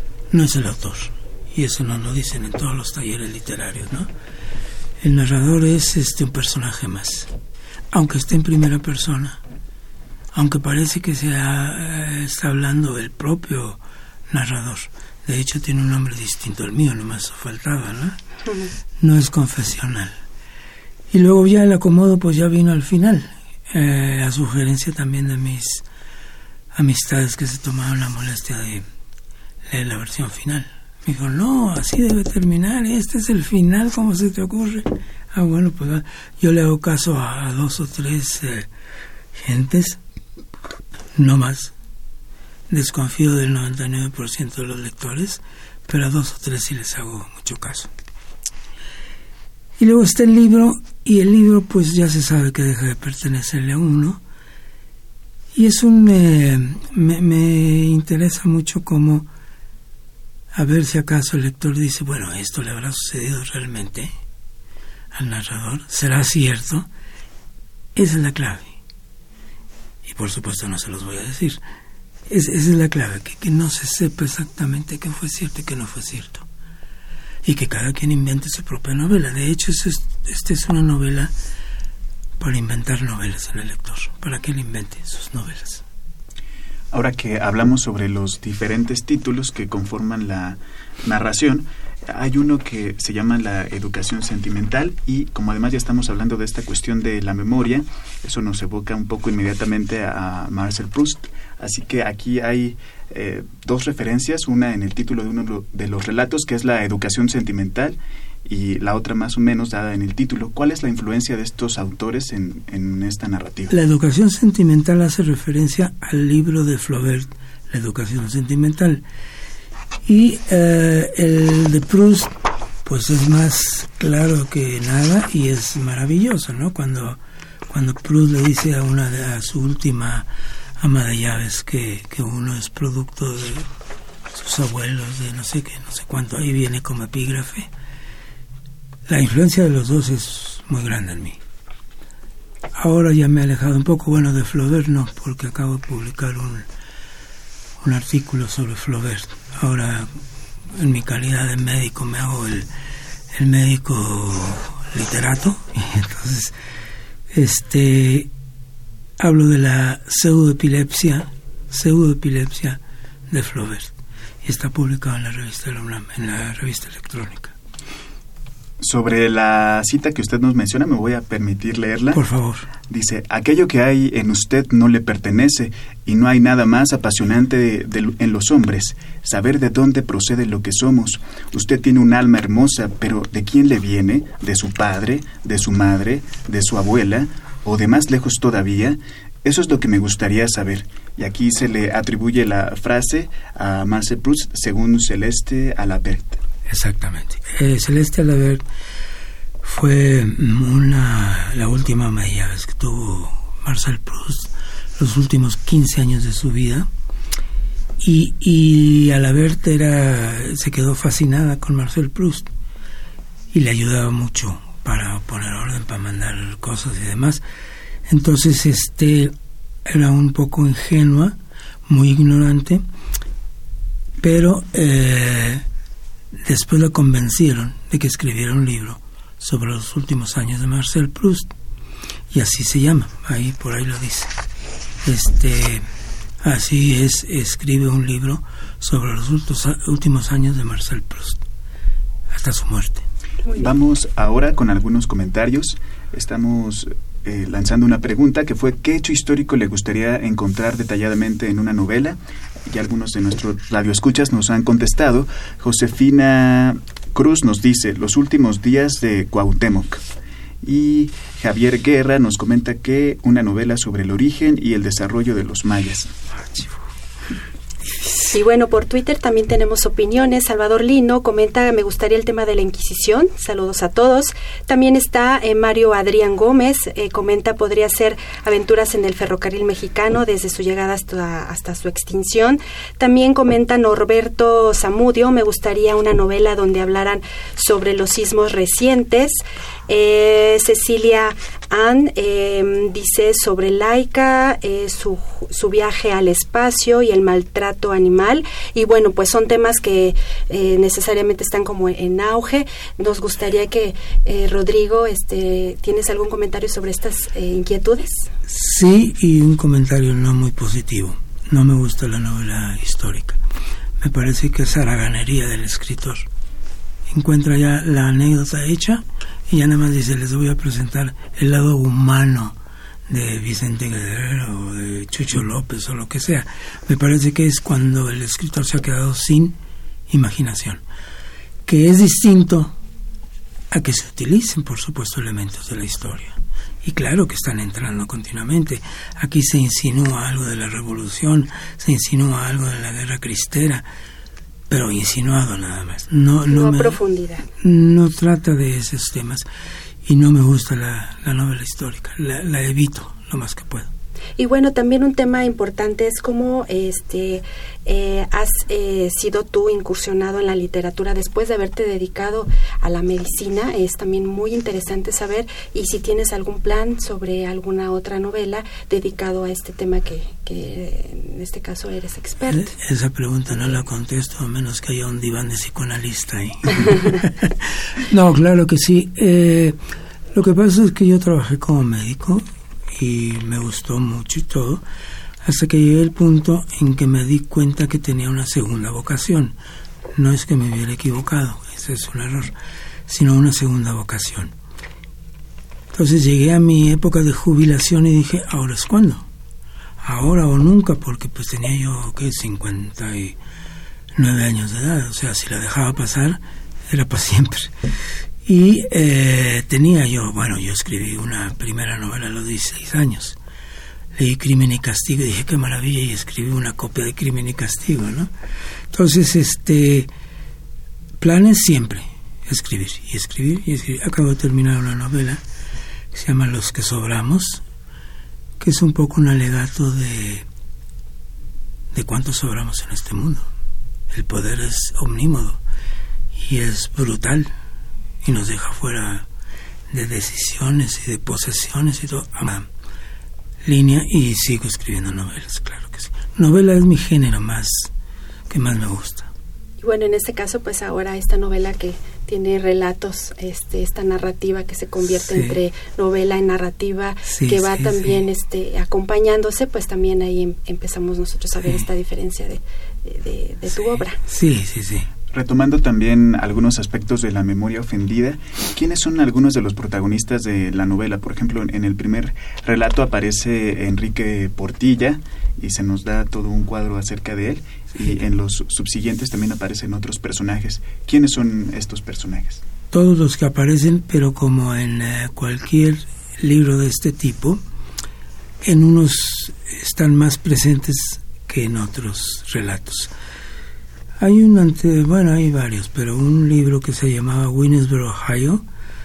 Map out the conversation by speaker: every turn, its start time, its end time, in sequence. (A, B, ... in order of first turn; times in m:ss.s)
0:00.3-0:04.1 A
0:05.0-0:07.3 A
0:07.9-0:09.4 A
0:10.3-0:18.2 A
0:18.5-0:18.7 B
0:19.0-0:20.1 A
0:21.1-0:25.8 A
0:26.7-0:28.8 A
0:29.7-0:38.7 A
0:39.4-0:40.0 A
0:41.2-0:41.7 A
0:42.7-0:47.9 A
0:49.8-0:54.2 A
0:55.6-0:59.3 A
1:00.5-1:04.1 A
1:05.1-1:06.9 A
1:08.0-1:08.8 A
1:10.0-1:11.6 A
1:12.3-1:16.5 A
1:17.4-1:21.3 A
1:22.4-1:25.8 A
1:26.9-1:53.7 C
1:53.7-1:59.0 A
2:00.0-2:02.3 A
2:02.8-2:13.6 A
2:14.3-2:17.7 A
2:19.1-2:21.4 A
2:22.8-2:26.6 A
2:27.8-2:30.1 A
2:30.7-2:32.7 A
2:33.3-2:36.6 A
2:37.3-2:38.3 A
2:39.2-2:47.6 A
2:48.8-2:52.2 C
2:52.1-2:52.7 A
2:52.8-3:16.4 C
3:16.7-3:18.6 A
3:19.6-3:26.9 A
3:28.0-3:32.5 A
3:33.5-3:37.4 A
3:38.1-3:39.3 A
3:39.9-3:42.8 A
3:44.2-3:45.6 A
3:46.4-3:51.5 A
3:52.3-3:54.3 A
3:55.0-3:55.8 A
3:56.4-4:01.4 A
4:02.3-4:03.0 A
4:03.5-4:20.0 C
4:20.6-4:26.1 C
4:28.3-5:08.3 B
5:08.5-5:13.4 A
5:14.0-5:16.3 A
5:17.1-5:22.6 A
5:23.1-5:29.6 A
5:30.1-5:30.8 A
5:31.7-5:32.8 A
5:33.7-5:43.8 A
5:44.7-5:47.0 A
5:46.5-5:47.5 B
5:47.6-5:49.5 A
5:50.0-5:53.9 A
5:54.4-6:12.7 B
6:12.5-6:19.8 A
6:20.3-6:24.8 A
6:25.4-6:29.6 A
6:30.2-6:32.5 A
6:33.1-6:34.5 A
6:35.9-6:39.3 A
6:40.0-6:43.4 A
6:44.2-6:47.7 A
6:48.5-6:53.4 A
6:54.2-6:58.3 A
6:58.9-7:00.1 A
7:01.2-7:05.4 A
7:06.1-7:07.6 A
7:08.6-7:10.5 A
7:11.9-7:13.5 A
7:14.1-7:15.6 A
7:16.4-7:17.5 A
7:18.2-7:19.3 A
7:19.9-7:22.7 A
7:23.6-7:27.9 A
7:28.5-7:29.3 A
7:29.8-7:44.2 B
7:35.1-7:35.6 A
7:37.3-7:38.2 A
7:43.8-7:45.1 A
7:45.3-8:02.6 C
8:02.9-8:07.6 A
8:08.6-8:13.1 A
8:14.2-8:18.6 A